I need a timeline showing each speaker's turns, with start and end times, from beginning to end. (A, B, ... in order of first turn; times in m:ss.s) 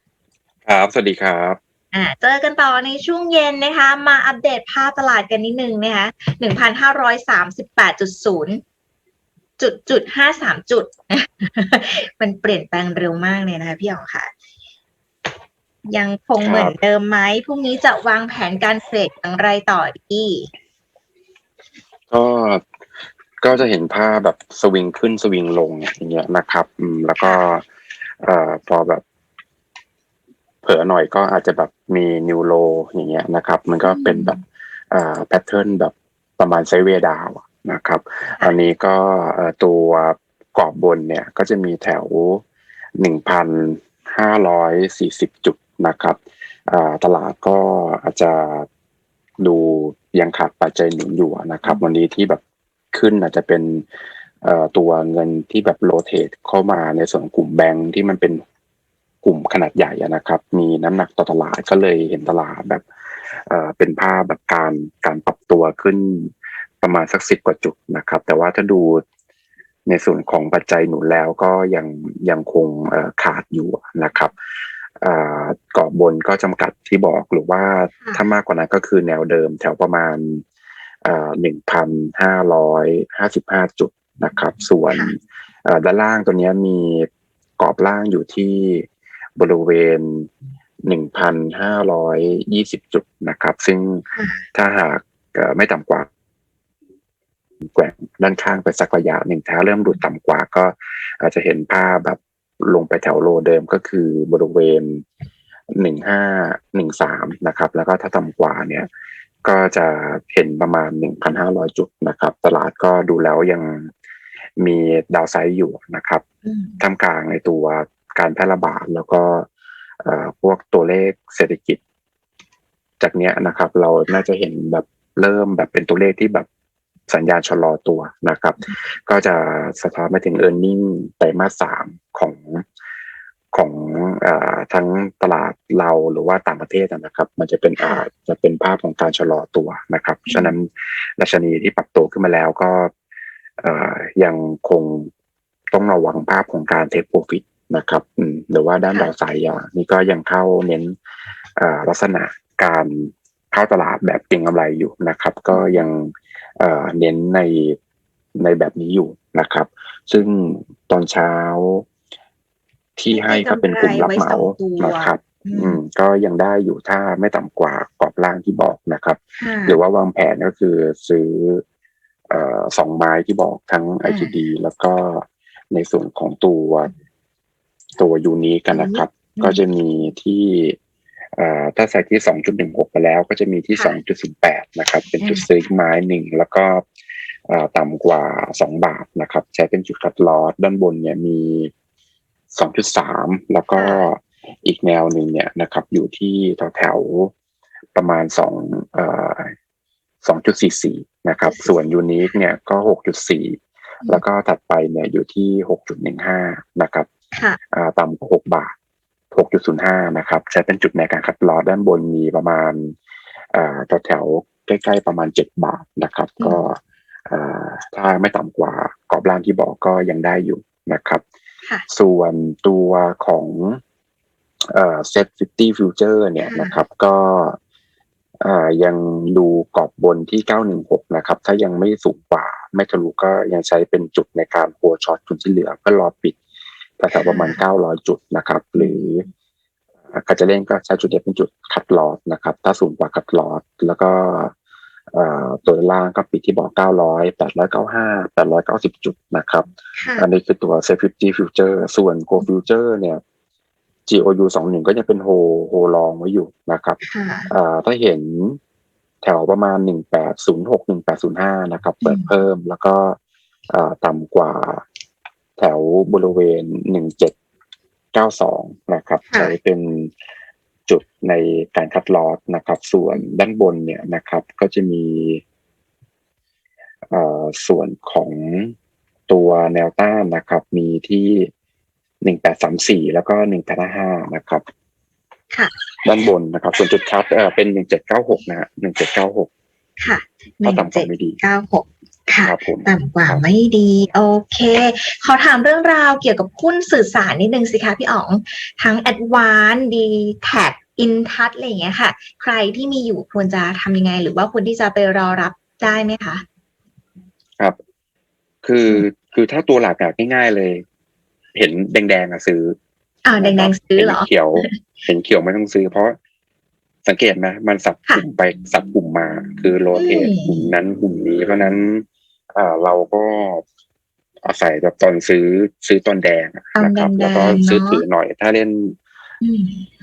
0:00.6-0:01.6 A
0:01.9-0:08.6 B
0:09.6-0:14.3 B
0:15.9-0:20.5 B
0:16.4-0:16.7 A
0:22.1-0:22.6 A
0:23.4-0:27.6 A
0:28.2-0:29.0 A
0:30.6-0:34.3 A
0:33.8-0:34.4 B
0:34.9-0:42.4 A
0:43.0-0:48.7 A
0:49.4-0:52.4 A
0:52.9-0:53.8 A
0:54.4-0:58.4 A
0:59.2-1:02.8 A
1:03.5-1:09.0 A
1:09.8-1:14.3 A
1:15.0-1:20.4 A
1:21.0-1:27.1 A
1:27.6-1:30.3 A
1:30.8-1:36.1 A
1:34.1-1:34.4 B
1:37.6-1:45.0 A
1:45.8-1:48.9 A
1:49.4-1:53.9 A
1:54.6-1:56.2 A
1:56.4-1:56.8 B
1:56.8-1:59.5 A
2:00.0-2:01.8 A
2:03.0-2:06.5 A
2:07.1-2:12.6 A
2:13.5-2:22.9 A
2:17.8-2:18.1 B
2:20.3-2:20.6 B
2:23.6-2:25.1 A
2:25.7-2:30.9 A
2:31.6-2:37.8 A
2:35.5-2:35.8 B
2:38.4-2:41.8 A
2:43.0-2:51.6 A
2:43.1-2:45.8 B
2:49.4-2:49.8 B
2:52.3-2:56.9 A
2:54.0-2:54.3 B
2:58.0-3:00.8 A
2:58.7-2:59.6 B
3:01.4-3:06.8 A
3:03.7-3:04.0 B
3:05.2-3:05.4 B
3:07.5-3:11.7 A
3:12.5-3:17.3 A
3:13.8-3:14.0 B
3:17.9-3:19.5 A
3:20.2-3:27.1 A
3:21.5-3:21.7 B
3:27.3-3:27.6 B
3:27.7-3:28.7 A
3:29.3-3:33.0 A
3:33.5-3:41.2 A
3:41.9-3:43.8 A
3:44.7-3:47.6 A
3:46.4-3:46.8 B
3:48.4-3:56.4 A
3:57.0-3:59.3 A
3:57.1-3:57.6 B
4:00.1-4:04.5 A
4:05.1-4:13.2 A
4:10.0-4:10.2 B
4:14.1-4:18.6 A
4:17.0-4:17.5 B
4:19.2-4:23.2 A
4:22.0-4:22.3 B
4:23.7-4:24.8 A
4:25.6-4:27.3 A
4:28.1-4:30.1 A
4:30.9-4:35.4 A
4:37.1-4:38.7 A
4:39.3-4:41.5 A
4:42.2-4:44.6 A
4:46.0-4:49.5 A
4:50.0-5:06.4 B
4:50.6-4:51.4 A
4:52.4-4:53.4 A
5:08.6-5:10.8 A
5:11.5-5:12.8 A
5:13.2-5:14.7 B
5:13.4-5:16.2 A
5:17.0-5:23.6 A
5:19.9-5:20.7 B
5:24.4-5:29.0 A
5:26.8-5:28.0 B
5:29.4-5:29.9 B